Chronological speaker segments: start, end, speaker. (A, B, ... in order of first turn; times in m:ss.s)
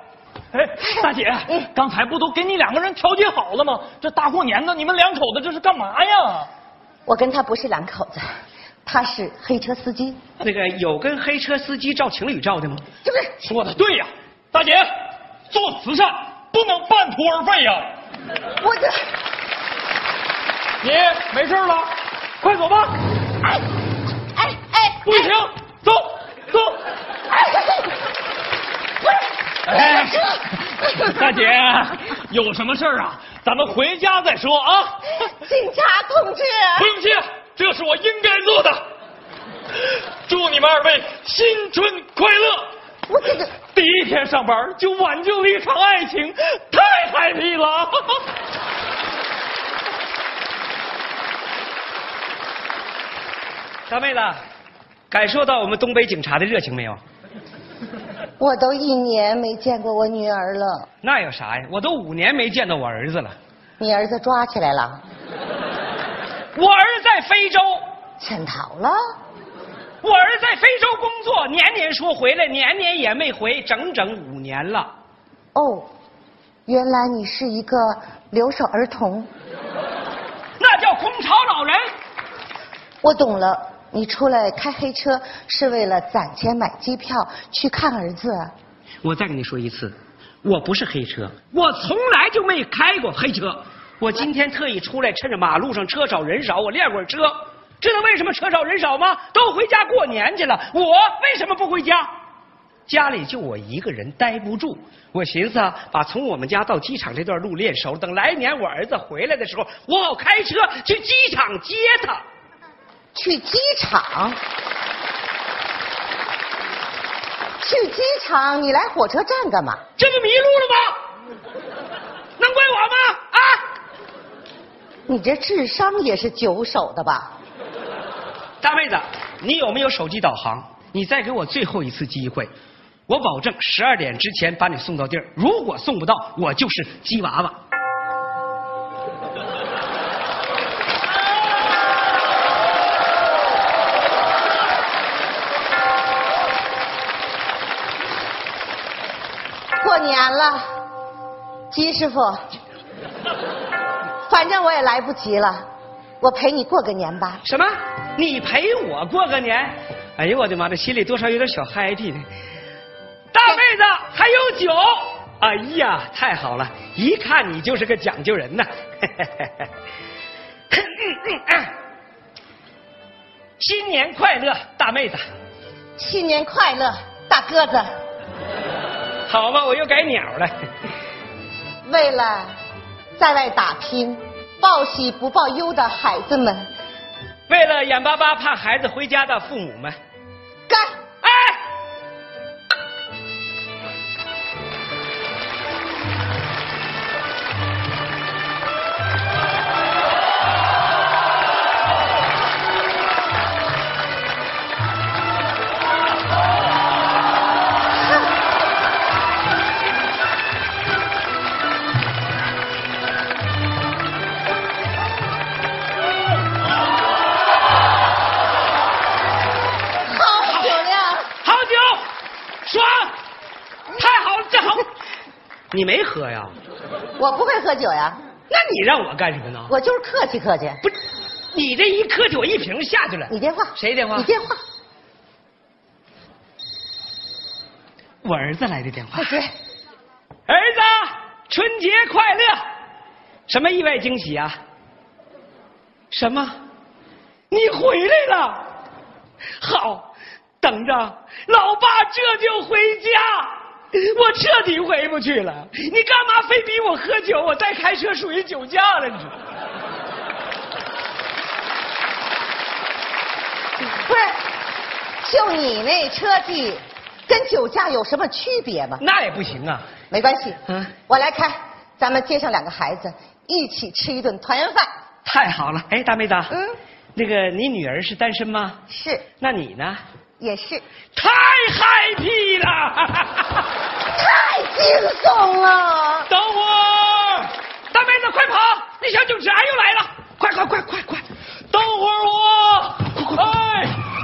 0:00.5-0:06.5 A
0:07.1-0:08.2 B
0:08.8-0:10.2 B
0:10.4-0:12.8 C
0:13.0-0:13.3 B
0:13.4-0:14.9 A
0:15.5-0:17.9 A
0:18.6-0:19.0 B
0:20.8-0:23.0 A
0:24.4-0:25.3 B
0:25.0-0:26.8 A
0:27.3-0:27.9 B
0:29.7-0:35.0 A
0:29.8-0:30.2 B
0:35.2-0:36.9 B
0:36.8-0:38.8 A
0:40.2-0:42.7 A
0:43.1-0:43.5 B
0:43.7-0:48.2 A
0:53.9-0:54.4 C
0:55.1-0:57.0 C
0:58.4-1:00.9 B
1:01.0-1:03.4 C
1:03.8-1:05.0 B
1:06.5-1:07.8 C
1:08.2-1:09.0 B
1:10.0-1:14.9 C
1:15.5-1:15.9 B
1:16.7-1:19.3 B
1:20.6-1:21.8 C
1:23.0-1:28.5 B
1:29.0-1:42.1 C
1:42.9-1:52.2 C
1:53.1-1:54.4 B
1:57.6-1:59.8 B
2:00.0-2:01.0 C
2:02.4-2:03.6 C
2:05.1-2:07.3 B
2:08.6-2:12.5 C
2:13.1-2:17.6 C
2:29.8-2:30.6 B
2:31.7-2:32.4 B
2:34.3-2:35.6 B
2:36.2-2:37.4 B
2:37.4-2:42.2 C
2:43.3-2:49.7 C
2:50.7-2:51.7 C
2:53.6-2:55.2 C
2:56.0-2:57.9 B
2:59.3-3:00.5 C
3:01.8-3:02.5 B
3:03.2-3:06.6 B
3:07.5-3:10.0 C
3:11.2-3:11.6 C
3:40.0-3:41.3 B
3:40.5-3:40.8 C
3:41.4-3:42.1 C
3:42.6-3:43.1 C
3:43.9-3:44.9 C
3:45.7-3:46.5 C
3:47.2-3:48.2 B
3:48.5-3:49.7 C
3:49.7-3:50.8 B
3:51.5-3:54.3 C
3:53.3-3:54.6 B
3:58.2-3:59.4 C
3:59.1-3:59.5 B
4:00.5-4:02.6 C
4:03.5-4:04.6 C
4:06.1-4:06.6 C
4:07.5-4:08.6 C
4:09.6-4:10.1 C
4:10.6-4:19.4 C
4:23.9-4:24.4 B
4:25.2-4:29.0 B
4:29.0-4:29.8 C
4:30.1-4:34.9 B
4:30.7-4:30.9 C
4:35.2-4:36.5 C
4:36.5-4:36.8 B
4:37.2-4:38.8 C
4:38.9-4:39.2 B
4:39.4-4:40.0 C
4:40.4-4:40.8 B
4:41.1-4:43.6 C
4:44.2-4:46.3 B
4:46.3-4:47.2 A
4:47.1-4:47.4 C
4:47.9-4:51.2 C
4:51.7-4:54.0 A